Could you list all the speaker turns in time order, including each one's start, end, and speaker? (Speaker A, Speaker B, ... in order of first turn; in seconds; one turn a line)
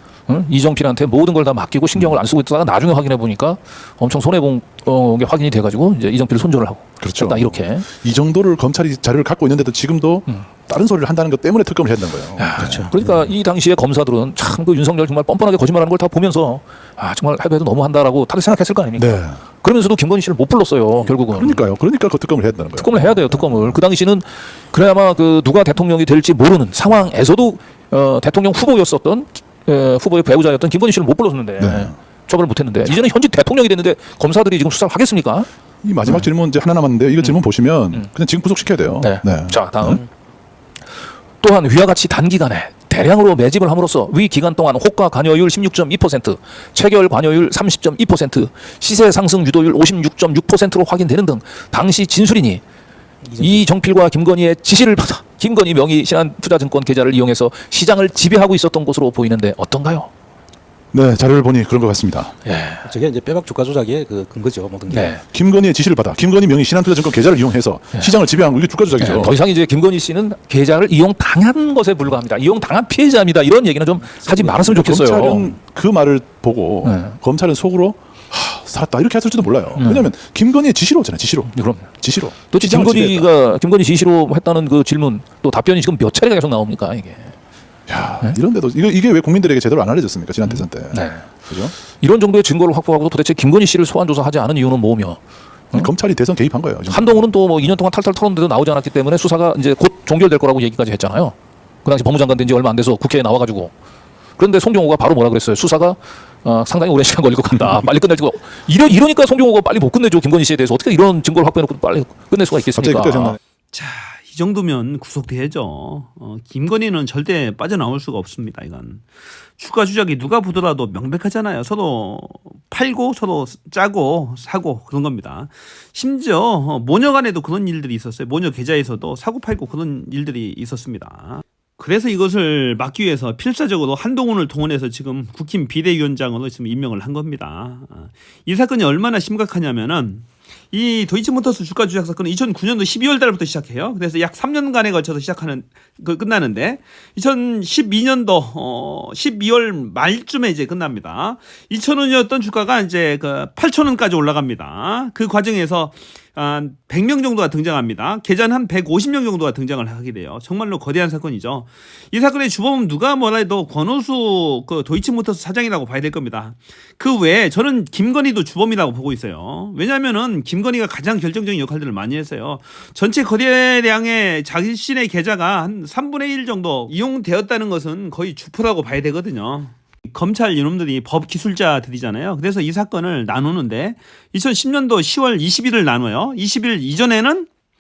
Speaker A: 0.3-7.9
Speaker B: 7.0-12.9
Speaker A: 12.4-21.6
Speaker C: 12.6-13.1
Speaker B: 19.0-19.4
Speaker B: 21.3-23.8
Speaker A: 22.8-35.5
Speaker B: 31.6-31.9
Speaker B: 35.8-40.0
Speaker A: 39.0-40.0
Speaker A: 41.4-52.6
Speaker C: 53.2-53.6
Speaker A: 53.4-60.1
Speaker B: 60.9-62.3
Speaker A: 62.4-62.9
Speaker C: 62.8-65.2
Speaker A: 64.9-65.2
Speaker B: 65.2-69.3
Speaker A: 69.0-75.5
Speaker B: 74.5-83.3
Speaker A: 76.8-77.2
Speaker A: 79.8-80.1
Speaker A: 81.5-81.9
Speaker A: 82.5-87.3
Speaker B: 87.9-91.7
Speaker A: 90.5-91.3
Speaker A: 91.9-95.2
Speaker B: 95.7-97.2
Speaker A: 96.9-103.7
Speaker A: 104.4-113.4
Speaker B: 112.7-113.4
Speaker D: 113.7-119.0
Speaker D: 119.6-187.5